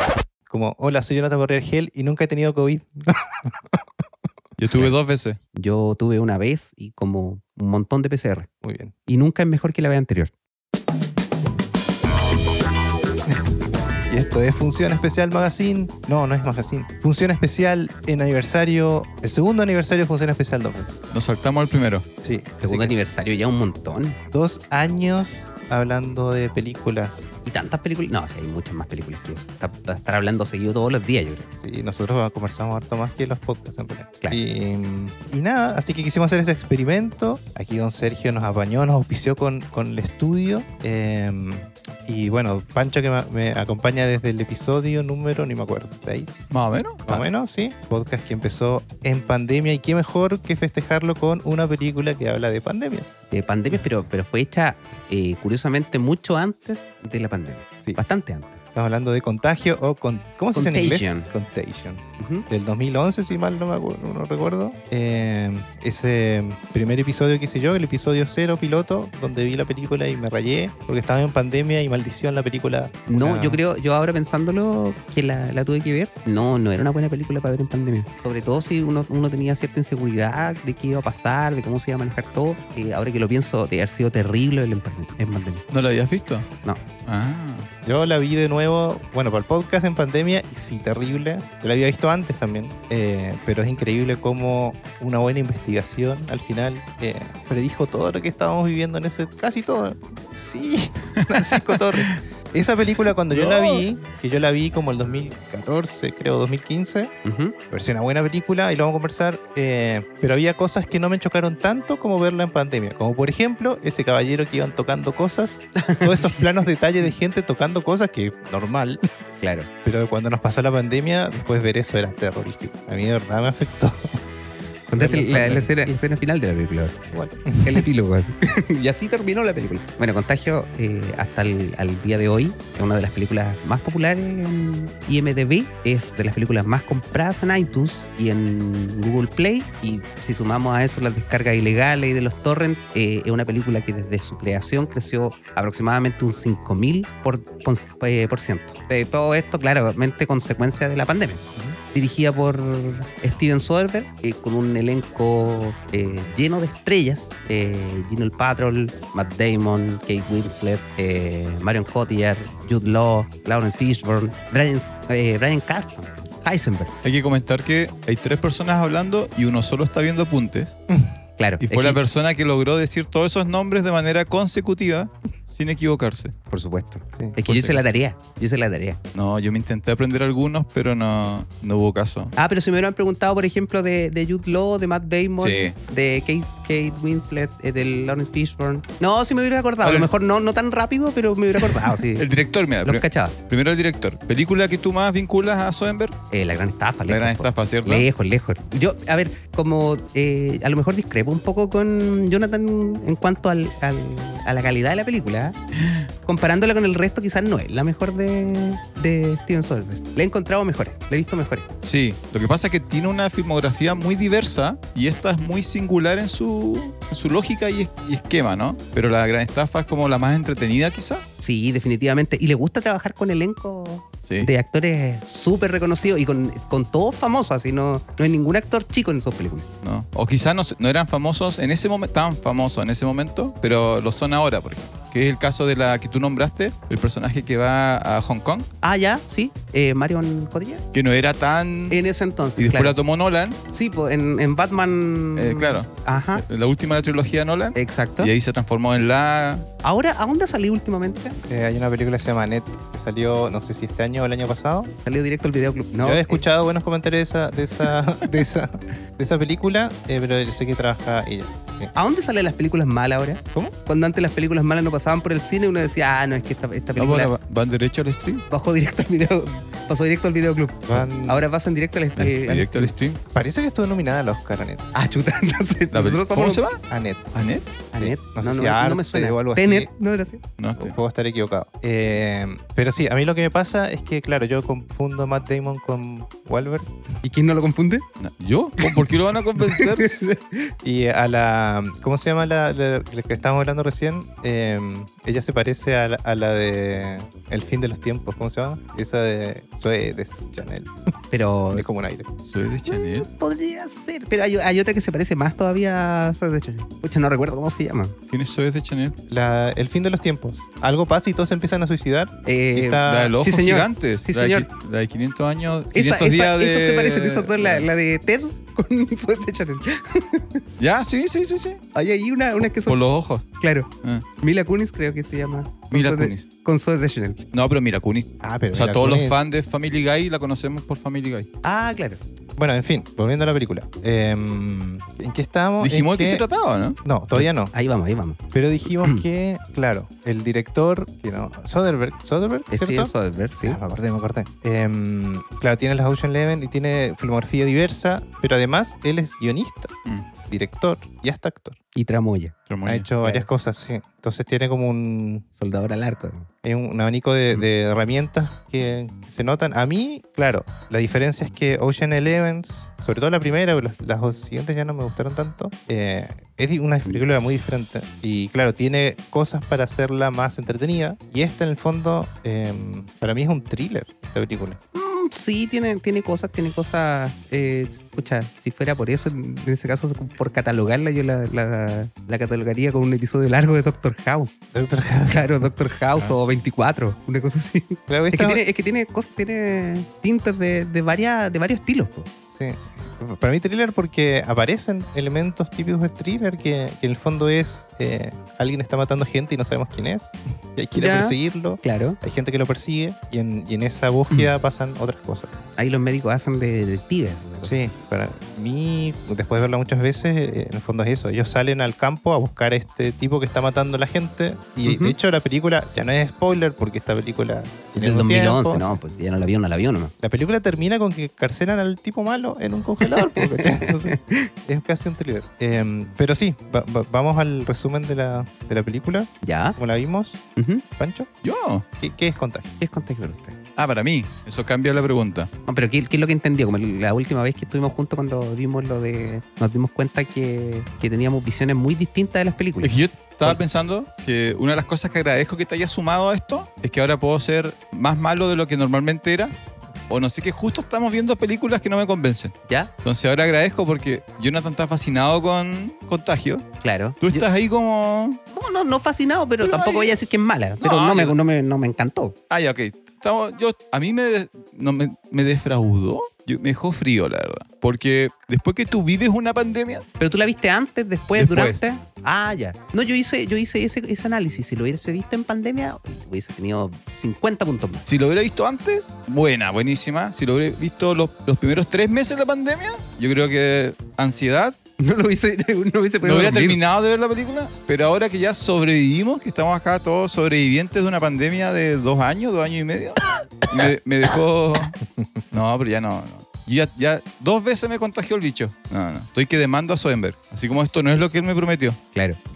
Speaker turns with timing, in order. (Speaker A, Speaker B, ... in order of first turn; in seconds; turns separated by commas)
Speaker A: 0.5-3.8, Speaker B: 4.6-5.4, Speaker C: 5.5-8.5, Speaker A: 8.6-8.9, Speaker C: 9.1-10.3, Speaker A: 14.1-21.0, Speaker B: 21.1-22.1, Speaker A: 22.2-22.9, Speaker C: 22.6-24.2, Speaker A: 24.3-27.4, Speaker C: 27.4-31.5, Speaker A: 31.6-46.4, Speaker B: 46.5-47.2, Speaker A: 47.1-53.2, Speaker C: 53.3-58.6, Speaker A: 58.7-73.6, Speaker C: 60.5-61.2, Speaker C: 62.2-62.5, Speaker C: 73.1-85.6, Speaker B: 85.7-86.5, Speaker B: 87.0-87.7, Speaker A: 87.8-107.1, Speaker B: 101.2-102.2, Speaker B: 103.3-103.8, Speaker C: 107.2-107.5, Speaker A: 107.7-119.0, Speaker C: 115.8-116.7, Speaker C: 119.4-119.7, Speaker A: 119.8-124.2, Speaker C: 124.9-166.9, Speaker A: 125.0-126.0, Speaker A: 127.1-127.8, Speaker B: 167.0-170.8, Speaker C: 171.4-172.0, Speaker B: 171.6-176.3, Speaker C: 176.5-179.0, Speaker B: 177.4-177.8, Speaker B: 179.1-182.3, Speaker C: 182.3-192.3, Speaker B: 185.4-185.7, Speaker B: 189.8-190.1, Speaker B: 191.6-196.2, Speaker C: 192.8-193.3, Speaker C: 196.3-205.6, Speaker B: 197.1-198.1, Speaker B: 205.8-206.1, Speaker C: 206.2-211.7, Speaker B: 211.8-221.2, Speaker C: 221.4-229.7, Speaker B: 229.8-238.7, Speaker C: 238.8-240.8, Speaker B: 240.9-242.0, Speaker C: 241.9-242.9, Speaker B: 242.6-243.6, Speaker C: 243.7-246.4, Speaker B: 245.3-249.7, Speaker C: 247.7-248.3, Speaker C: 249.8-251.4, Speaker A: 251.5-254.9, Speaker C: 255.0-256.4, Speaker A: 256.0-261.9, Speaker C: 261.9-267.3, Speaker B: 267.0-268.4, Speaker C: 268.5-272.9, Speaker A: 270.9-271.4, Speaker B: 272.2-273.2, Speaker A: 273.3-274.9, Speaker C: 274.9-276.6, Speaker B: 275.9-276.8, Speaker A: 276.9-277.3, Speaker B: 277.3-277.9, Speaker A: 277.9-279.9, Speaker C: 277.9-280.4, Speaker B: 280.6-280.9, Speaker A: 280.8-287.0, Speaker C: 287.2-288.0, Speaker B: 288.2-290.1, Speaker C: 288.8-290.7, Speaker A: 290.8-300.9, Speaker C: 301.3-301.8, Speaker A: 301.7-302.3, Speaker B: 302.4-303.3, Speaker C: 302.8-308.1, Speaker B: 308.3-309.1, Speaker A: 309.3-313.4, Speaker C: 312.4-314.6, Speaker B: 313.1-317.9, Speaker C: 315.9-320.6, Speaker B: 320.8-321.8, Speaker C: 321.9-323.0, Speaker B: 322.9-323.4, Speaker C: 323.6-323.9, Speaker C: 324.4-327.4, Speaker B: 325.9-326.4, Speaker B: 327.5-331.5, Speaker A: 328.4-329.4, Speaker C: 331.6-332.2, Speaker A: 332.6-336.4, Speaker B: 335.8-337.0, Speaker A: 337.0-337.7, Speaker C: 337.3-338.4, Speaker A: 338.5-349.9, Speaker C: 342.7-343.8, Speaker A: 350.5-351.8, Speaker C: 351.9-352.5, Speaker B: 352.7-353.1, Speaker A: 352.8-355.4, Speaker C: 353.2-353.5, Speaker C: 355.6-356.5, Speaker A: 356.6-374.8, Speaker C: 374.9-384.6, Speaker A: 384.7-385.7, Speaker C: 385.3-392.3, Speaker A: 388.1-388.6, Speaker A: 392.5-405.5, Speaker C: 400.9-402.2, Speaker C: 405.8-407.8, Speaker A: 407.6-419.0, Speaker C: 414.8-415.1, Speaker C: 418.0-420.1, Speaker A: 420.2-430.4, Speaker C: 423.0-424.5, Speaker C: 429.4-429.8, Speaker C: 430.6-430.8, Speaker A: 431.0-431.3, Speaker B: 431.4-431.8, Speaker A: 432.0-432.7, Speaker C: 432.8-433.6, Speaker B: 433.8-435.5, Speaker C: 435.6-443.6, Speaker B: 442.8-449.5, Speaker B: 450.1-456.6, Speaker C: 456.8-457.5, Speaker B: 457.2-458.4, Speaker C: 458.5-462.3, Speaker B: 459.6-460.2, Speaker B: 460.8-461.3, Speaker B: 462.5-470.1, Speaker C: 470.2-478.1, Speaker B: 471.4-471.8, Speaker B: 478.1-484.8, Speaker C: 485.0-486.8, Speaker B: 486.2-495.0, Speaker A: 495.1-495.4, Speaker B: 495.5-502.0, Speaker C: 502.1-502.4